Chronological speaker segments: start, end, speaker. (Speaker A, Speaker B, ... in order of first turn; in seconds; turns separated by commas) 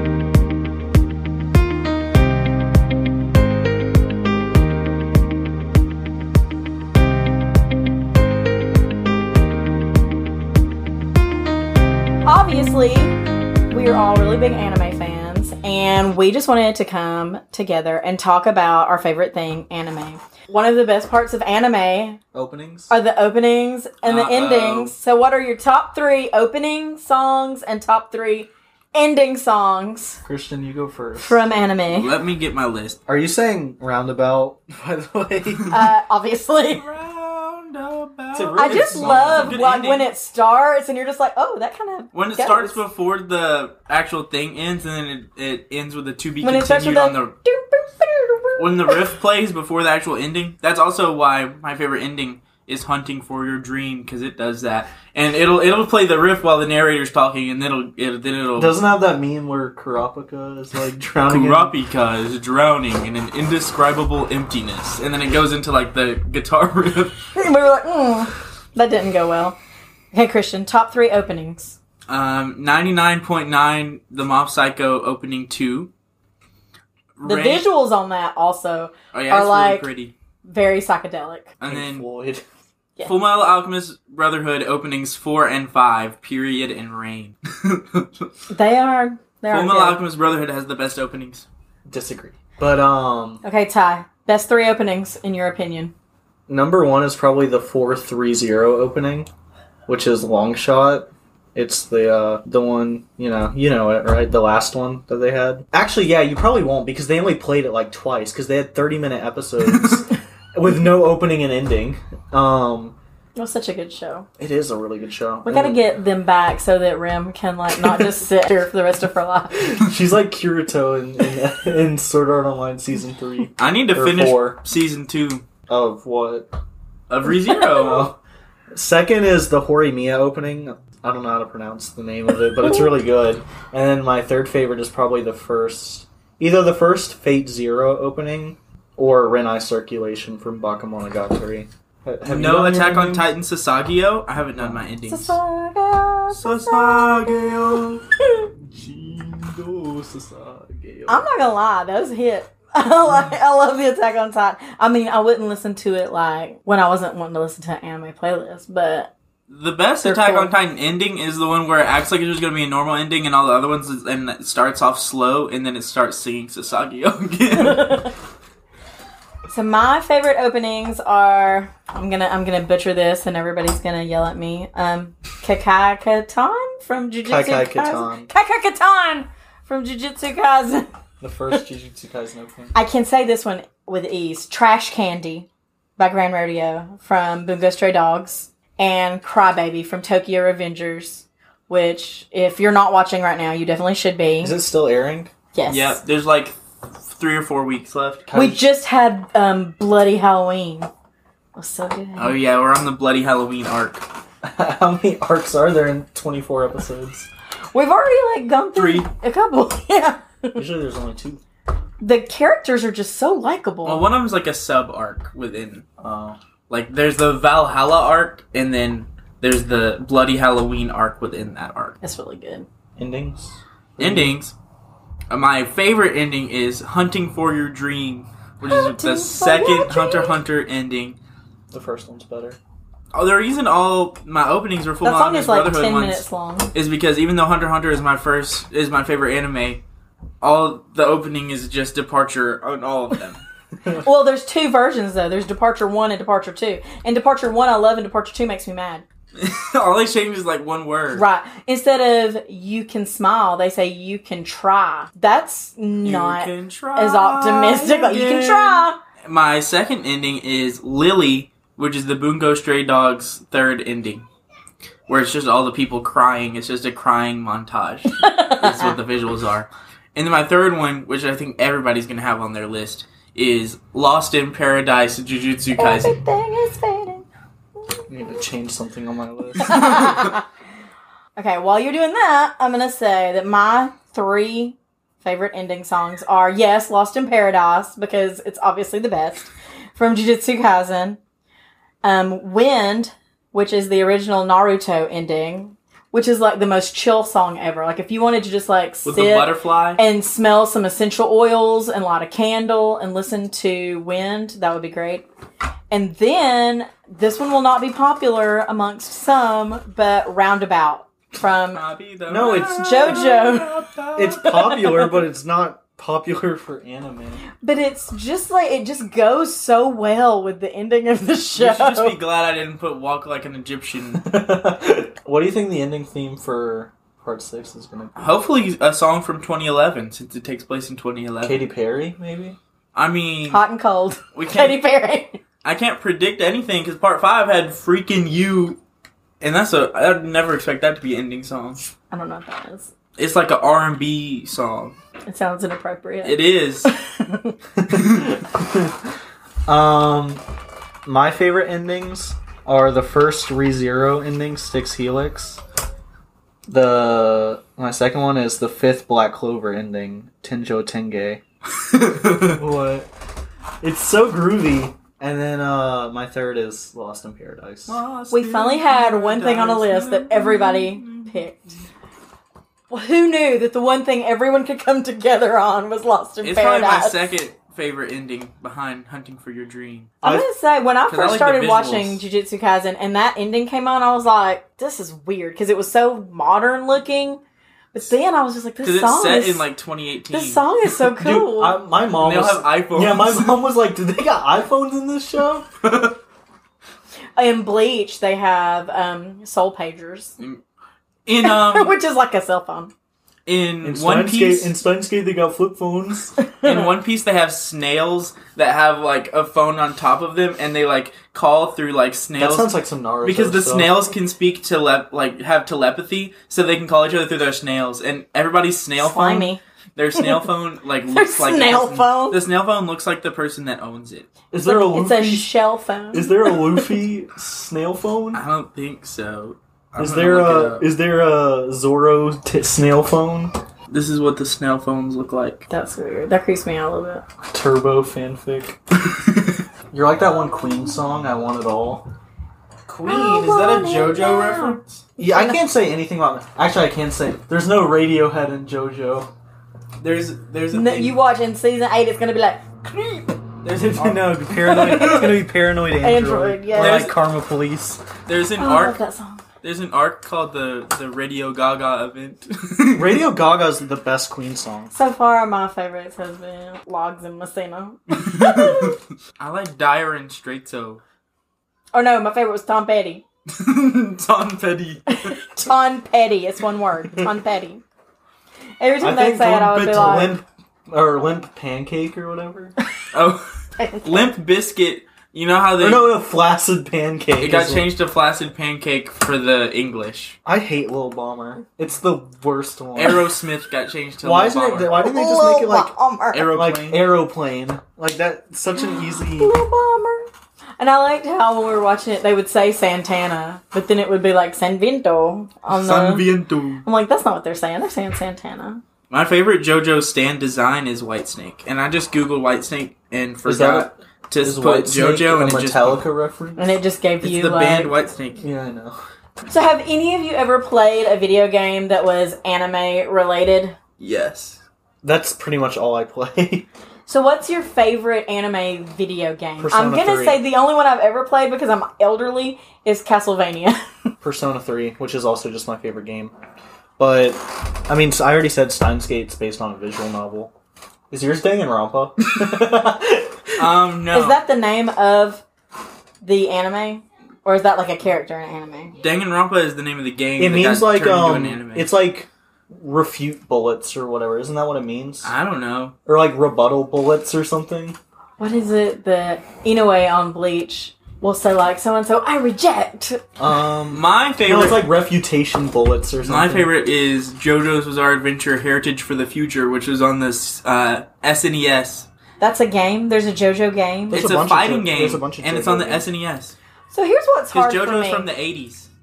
Speaker A: 12.2-13.2, Speaker A: 13.7-22.2, Speaker B: 22.3-22.9, Speaker A: 22.9-30.2, Speaker C: 24.0-24.9, Speaker B: 30.2-31.4, Speaker A: 31.2-32.1, Speaker C: 31.9-33.0, Speaker B: 33.1-35.8, Speaker A: 35.7-36.9, Speaker C: 36.8-40.1, Speaker B: 38.3-39.6, Speaker A: 38.6-42.8, Speaker C: 42.1-47.3, Speaker A: 46.4-49.1, Speaker C: 48.6-58.8, Speaker B: 58.5-61.7, Speaker C: 61.2-67.2, Speaker A: 67.3-69.6, Speaker A: 70.1-71.8, Speaker C: 72.1-75.9, Speaker C: 77.2-77.7, Speaker A: 77.2-79.9, Speaker C: 79.1-80.1, Speaker A: 80.4-81.5, Speaker C: 81.6-82.0, Speaker B: 81.7-82.4, Speaker C: 83.0-88.2, Speaker A: 88.5-90.0, Speaker C: 89.5-91.5, Speaker B: 91.9-93.4, Speaker A: 93.4-95.9, Speaker B: 96.5-99.3, Speaker B: 99.9-113.0, Speaker C: 109.6-110.0, Speaker A: 113.3-114.3, Speaker B: 114.4-115.8, Speaker A: 115.4-119.8, Speaker B: 119.6-124.6, Speaker C: 123.6-125.5, Speaker B: 125.7-126.5, Speaker C: 127.1-128.1, Speaker B: 127.6-128.2, Speaker B: 128.7-143.3, Speaker C: 142.2-145.4, Speaker B: 144.6-144.8, Speaker A: 145.1-148.4, Speaker C: 146.3-148.0, Speaker C: 148.7-151.2, Speaker A: 151.1-159.1, Speaker C: 159.5-168.1, Speaker A: 160.0-160.5, Speaker A: 167.6-168.1, Speaker A: 169.5-180.9, Speaker B: 177.2-178.3, Speaker B: 181.2-182.7, Speaker A: 182.7-194.6, Speaker B: 194.4-195.3, Speaker A: 195.5-196.0, Speaker C: 195.7-196.6, Speaker C: 197.1-198.3, Speaker B: 198.3-198.7, Speaker A: 198.3-200.9, Speaker A: 201.6-202.4, Speaker C: 202.2-204.1, Speaker B: 204.4-207.3, Speaker A: 207.7-210.6, Speaker C: 208.7-209.1, Speaker B: 210.6-211.4, Speaker A: 212.0-214.1, Speaker C: 213.8-215.8, Speaker B: 216.0-216.4, Speaker C: 216.7-221.9, Speaker A: 222.0-222.7, Speaker B: 223.0-224.4, Speaker C: 224.0-224.5, Speaker C: 225.3-231.2, Speaker A: 228.6-230.4, Speaker B: 231.7-232.6, Speaker C: 233.1-239.8, Speaker A: 235.0-236.7, Speaker C: 240.4-243.4, Speaker A: 244.0-249.0, Speaker C: 249.3-251.2, Speaker A: 251.1-259.0, Speaker C: 256.0-264.3, Speaker C: 265.1-276.1, Speaker A: 268.1-268.9, Speaker A: 275.8-277.2, Speaker B: 278.1-280.2, Speaker A: 279.6-280.4, Speaker A: 281.4-291.2, Speaker A: 292.0-305.2, Speaker C: 299.0-300.0, Speaker A: 305.9-311.8, Speaker C: 311.7-315.2, Speaker B: 312.3-313.2, Speaker A: 312.5-313.8, Speaker B: 314.1-317.4, Speaker A: 317.6-322.2, Speaker C: 321.5-324.3, Speaker B: 324.2-328.3, Speaker C: 328.2-331.6, Speaker B: 331.4-332.6, Speaker C: 332.9-333.6, Speaker A: 333.5-335.4, Speaker C: 334.3-334.8, Speaker C: 335.6-338.8, Speaker C: 339.4-341.9, Speaker A: 342.1-342.9, Speaker C: 343.2-344.9, Speaker A: 345.3-347.5, Speaker C: 346.2-346.9, Speaker B: 347.8-348.9, Speaker B: 349.6-350.4, Speaker B: 351.1-355.6, Speaker B: 356.7-361.4, Speaker C: 361.9-362.6, Speaker B: 362.5-363.1, Speaker B: 363.8-368.0, Speaker C: 367.9-371.5, Speaker A: 368.3-371.8, Speaker A: 372.9-377.3, Speaker C: 376.4-380.1, Speaker A: 380.2-387.4, Speaker C: 381.1-382.2, Speaker A: 387.9-389.6, Speaker C: 388.8-390.6, Speaker A: 390.3-391.8, Speaker B: 391.1-395.7, Speaker C: 392.1-393.6, Speaker A: 397.4-400.3, Speaker C: 401.2-401.9, Speaker A: 401.4-402.9, Speaker C: 403.4-404.7, Speaker B: 403.8-406.3, Speaker A: 406.4-406.9, Speaker C: 406.6-424.3, Speaker B: 412.4-414.0, Speaker A: 419.0-419.6, Speaker A: 420.2-420.5, Speaker A: 421.0-422.4, Speaker B: 424.5-425.5, Speaker A: 424.6-426.9, Speaker B: 426.1-428.4, Speaker C: 428.3-430.9, Speaker B: 430.0-433.5, Speaker C: 433.9-435.6, Speaker A: 435.7-437.2, Speaker B: 437.5-438.8, Speaker C: 439.1-439.6, Speaker B: 439.9-442.0, Speaker C: 442.9-445.0, Speaker A: 443.0-445.6, Speaker B: 445.2-449.3, Speaker C: 450.0-451.2, Speaker A: 450.7-453.4, Speaker C: 453.6-455.3, Speaker B: 453.6-458.0, Speaker A: 454.6-455.4, Speaker A: 456.0-457.1, Speaker C: 456.8-457.2, Speaker C: 458.2-459.0, Speaker A: 458.6-459.4, Speaker C: 459.6-463.2, Speaker B: 462.9-464.9, Speaker A: 464.9-469.0, Speaker C: 468.1-471.0, Speaker A: 471.9-473.2, Speaker C: 473.6-475.4, Speaker A: 475.1-477.8, Speaker A: 478.8-480.4, Speaker B: 479.0-482.7, Speaker C: 483.1-483.4, Speaker A: 483.8-484.3, Speaker C: 484.0-486.2, Speaker B: 485.8-487.9, Speaker C: 487.4-490.4, Speaker B: 490.4-493.3, Speaker C: 492.9-495.0, Speaker B: 494.2-495.9, Speaker A: 495.0-496.5, Speaker C: 496.3-497.1, Speaker B: 496.5-499.6, Speaker A: 499.0-500.3, Speaker A: 500.8-506.3, Speaker C: 505.7-506.9, Speaker A: 506.8-508.8, Speaker C: 509.1-516.0, Speaker B: 513.4-516.7, Speaker A: 516.6-517.9, Speaker C: 517.2-518.4, Speaker B: 518.4-519.0, Speaker A: 519.5-523.8, Speaker C: 524.0-524.6, Speaker B: 525.0-526.6, Speaker A: 527.0-533.8, Speaker B: 529.6-530.4, Speaker B: 534.2-536.3, Speaker B: 537.0-540.5, Speaker B: 541.1-543.7, Speaker C: 543.6-544.4, Speaker A: 544.1-545.4, Speaker A: 546.2-549.0, Speaker C: 549.0-551.9, Speaker B: 550.4-555.3, Speaker C: 555.2-555.9, Speaker B: 556.0-558.0, Speaker A: 558.4-563.2, Speaker B: 563.4-566.7, Speaker C: 563.9-564.9, Speaker C: 566.2-572.1, Speaker A: 572.4-574.2, Speaker B: 574.1-576.1, Speaker C: 574.1-576.5, Speaker A: 576.9-578.3, Speaker C: 577.5-578.9